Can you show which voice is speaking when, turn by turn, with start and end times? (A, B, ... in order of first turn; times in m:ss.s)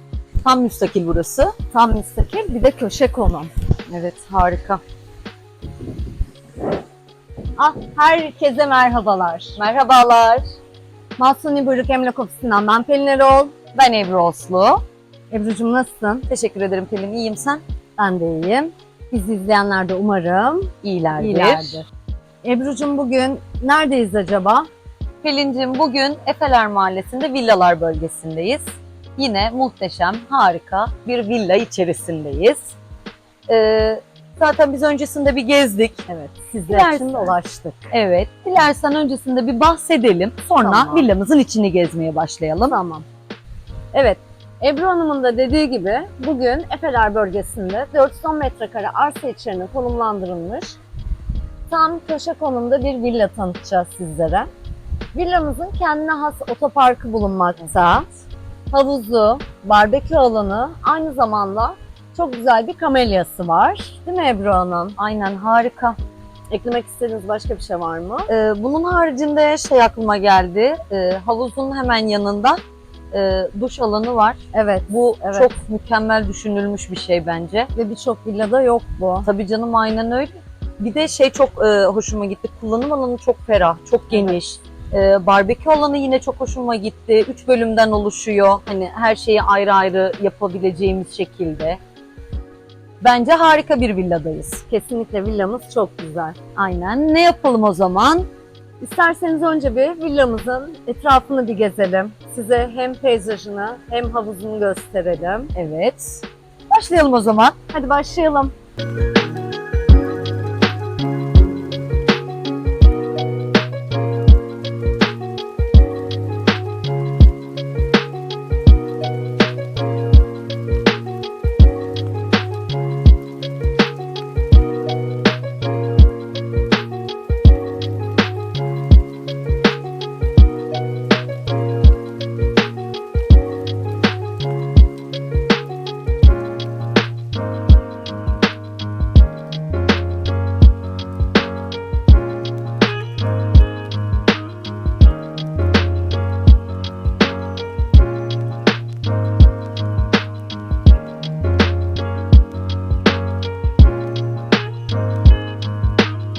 0:00.4-0:01.5 A
0:01.7-0:03.5 B
0:03.9-0:04.8 A
0:07.6-0:09.6 B
0:09.6-0:10.4 A
0:11.2-0:13.6 B
0:13.7-0:14.8 A
0:15.3-0:16.2 B
0:16.3-0:17.6 A
0:18.0-0:21.9 B
0:20.8-0:21.8 A
0:22.4-0:24.7 B
0:25.2-0:32.8 A
0:33.5-0:36.0 A
0:36.1-0:37.9 B
0:36.7-0:37.3 A
0:37.9-0:42.8 A
0:40.6-0:41.1 B
0:42.7-0:43.0 B
0:43.9-0:50.8 B
0:51.7-0:54.5 B
0:55.1-1:05.0 B
1:05.0-1:06.0 A
1:06.5-1:08.3 B
1:08.3-1:12.6 A
1:13.1-1:17.7 A
1:14.5-1:15.5 B
1:17.7-1:19.3 B
1:19.2-1:31.8 A
1:24.1-1:24.4 B
1:33.0-1:34.6 A
1:34.7-1:36.4 B
1:36.6-1:38.3 A
1:38.8-1:45.5 B
1:45.5-1:47.6 A
1:47.7-1:48.5 B